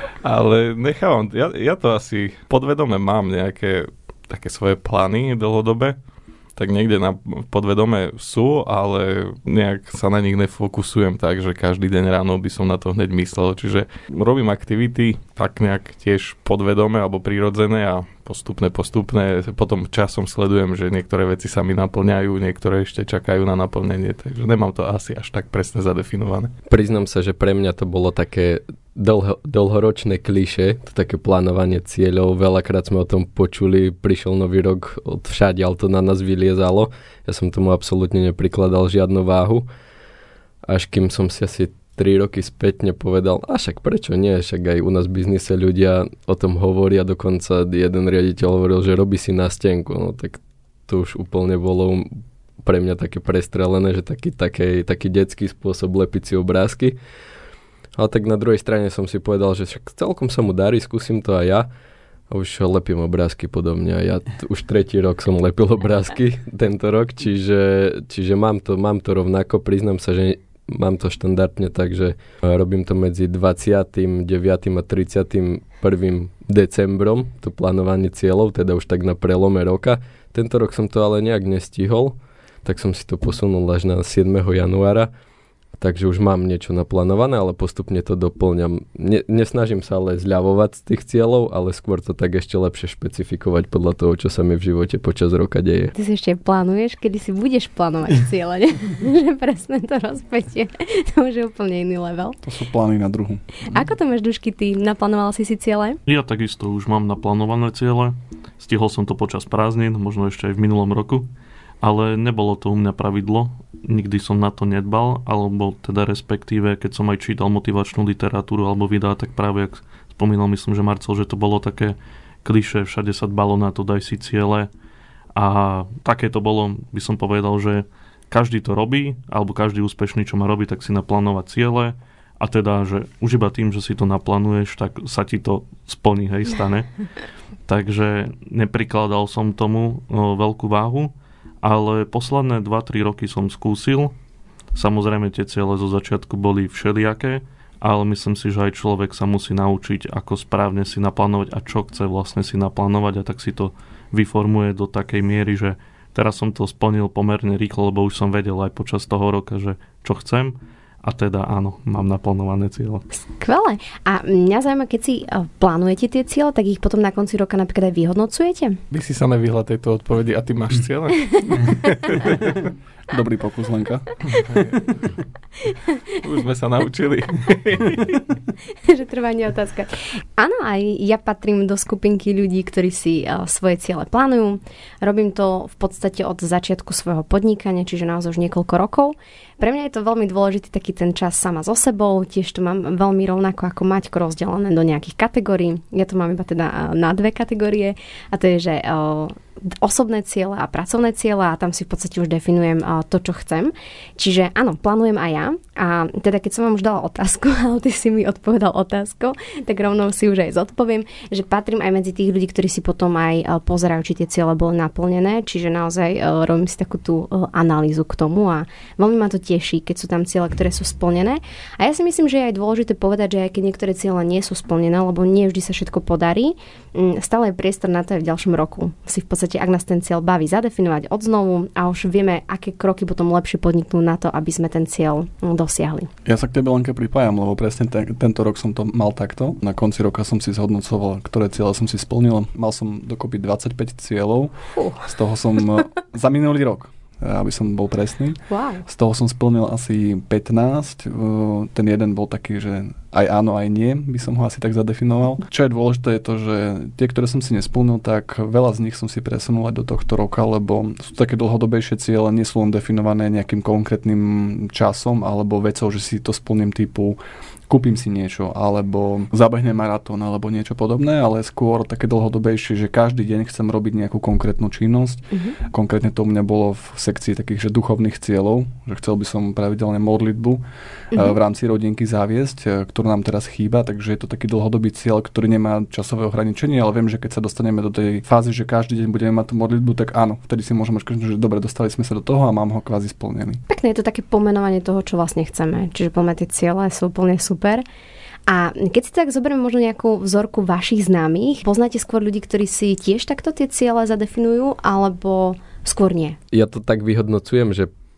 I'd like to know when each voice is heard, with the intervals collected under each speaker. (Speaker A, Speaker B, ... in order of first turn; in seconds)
Speaker A: 0.2-6.0, 6.5-26.5, 168.9-172.5, 174.5-174.8, 176.2-178.1
Speaker B: 26.7-39.6, 40.7-52.1, 52.6-57.0, 58.0-61.7, 62.3-85.1, 85.8-95.9, 306.5-307.9
Speaker C: 95.9-102.4, 103.7-106.0, 163.4-168.8, 178.9-236.1, 244.8-245.0, 248.5-248.8, 275.3-275.6, 293.7-297.8, 298.5-306.4
Speaker D: 102.4-103.8, 173.1-174.1, 236.2-244.5, 245.0-267.2, 267.7-280.6, 281.1-293.6
Speaker E: 106.1-111.3, 111.8-124.7, 125.3-144.1, 144.7-163.1